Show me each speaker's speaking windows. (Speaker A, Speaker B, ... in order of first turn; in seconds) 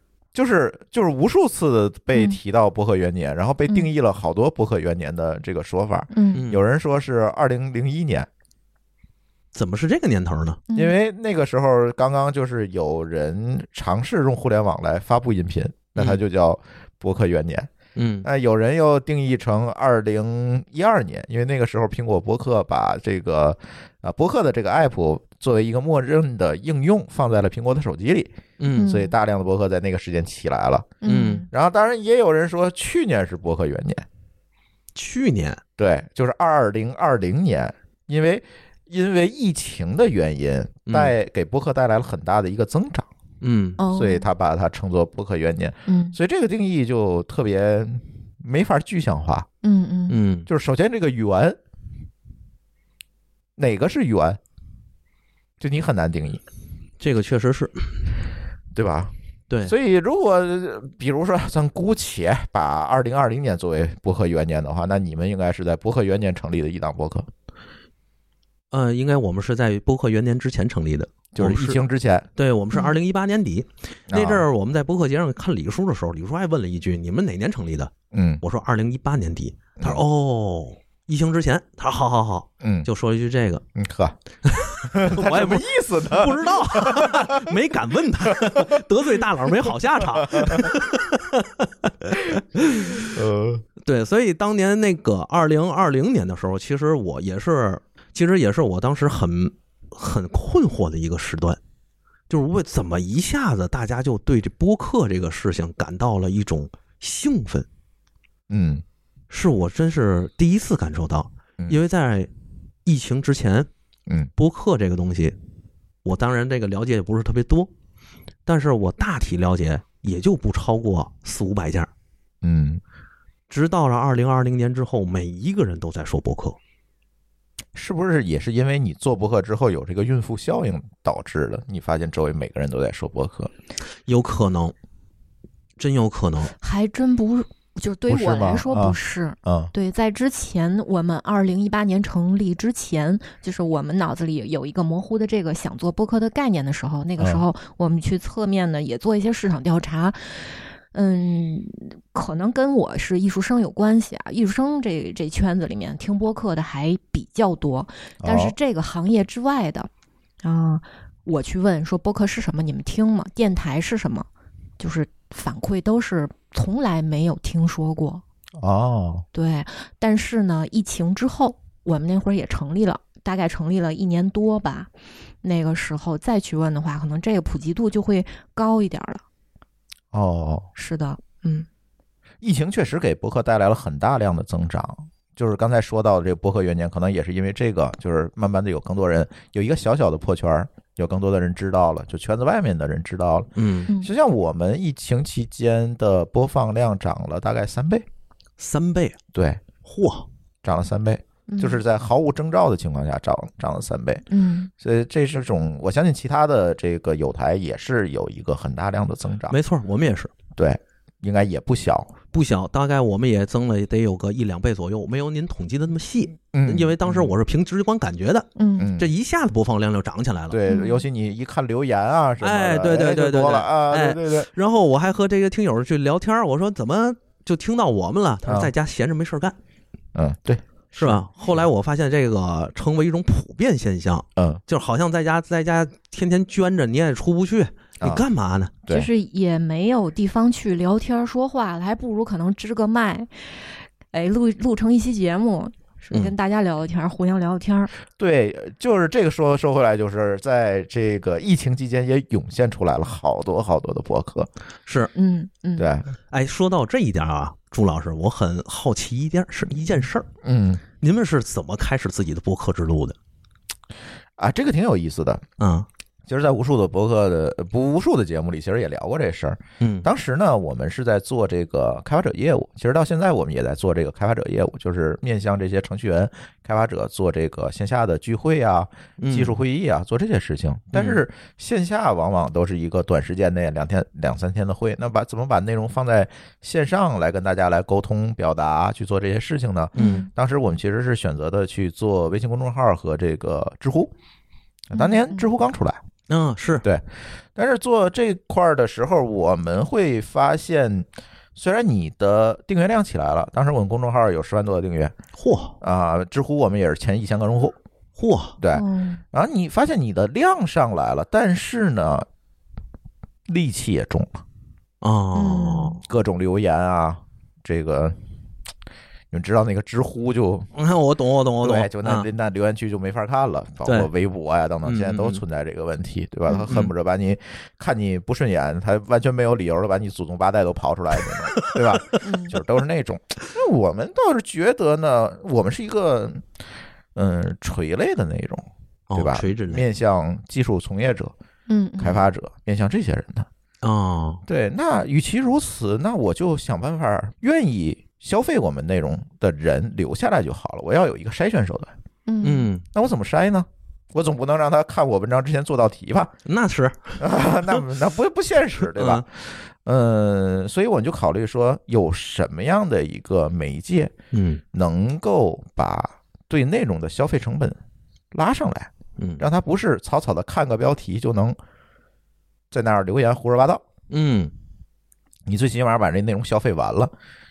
Speaker A: 0.3-8.3, 10.7-17.7, 18.2-34.1, 35.8-43.1, 43.9-49.5, 50.5-51.6, 53.6-54.4, 55.6-56.4, 58.8-59.1, 59.6-67.3, 71.3-72.3, 74.1-74.5, 78.1-78.4, 79.8-80.0, 82.6-82.9, 83.8-84.2, 84.7-87.5, 90.1-90.7, 93.1-93.6, 108.5-108.8, 122.4-122.8, 127.8-133.5, 138.1-139.7, 147.2-147.4, 158.2-158.5, 168.6-169.2, 180.1-180.7, 182.4-198.1, 199.3-199.6, 200.6-204.2, 204.8-209.6, 210.6-212.2, 216.5-217.3, 218.8-219.1, 220.5-224.5, 228.5-228.7, 230.2-231.6, 248.2-254.5, 255.8-256.1, 260.4-260.8, 264.4-265.4, 266.3-294.1, 294.9-296.0, 296.8-305.1, 305.8-307.8, 308.6-312.3, 313.5-314.4, 316.0-318.2, 319.3-320.7, 321.6-336.4, 337.2-341.3, 342.0-343.5, 344.5-351.9, 352.9-356.3, 357.2-364.1, 364.7-367.8, 368.3-371.6, 372.7-373.8, 375.5-377.1
Speaker B: 6.1-6.5, 28.7-29.1, 31.0-31.5, 43.8-44.3, 45.9-46.2, 49.6-50.2, 136.6-159.9, 160.4-164.3, 164.8-168.2, 169.3-174.9, 175.4-179.2, 180.8-181.7, 201.5-201.8, 204.3-204.7, 218.6-218.9, 220.7-221.0, 238.9-247.9, 255.2-255.9, 290.0-290.3, 294.9-295.5, 308.7-309.2, 315.4-316.0, 332.2-332.6, 341.7-342.3, 352.3-352.7
Speaker C: 6.3-6.6, 9.5-10.6, 18.0-18.3, 28.6-28.9, 31.1-31.5, 35.0-35.6, 40.9-41.1, 43.4-43.8, 50.1-50.5, 57.0-58.0, 68.7-71.8, 72.4-83.6, 84.5-93.1, 93.8-101.6, 102.3-107.7, 109.3-112.3, 112.8-113.7, 114.4-115.4, 116.0-117.7, 118.5-121.9, 123.5-126.6, 134.1-134.7, 135.8-136.5, 193.6-193.9, 198.6-199.2, 199.8-200.3, 209.5-210.3, 212.3-220.6, 222.4-229.6, 231.0-238.7, 254.9-255.1, 256.3-260.3, 261.0-263.2, 265.6-265.9, 269.8-270.1, 279.2-279.6, 280.9-281.2, 290.0-290.3, 296.3-296.9, 305.4-305.8, 308.2-308.6, 315.0-316.0, 320.8-322.3, 324.9-325.4, 339.1-339.9, 343.8-344.4, 352.4-352.8, 356.5-357.2, 358.8-359.3, 364.3-364.6, 369.2-369.4, 374.1-374.5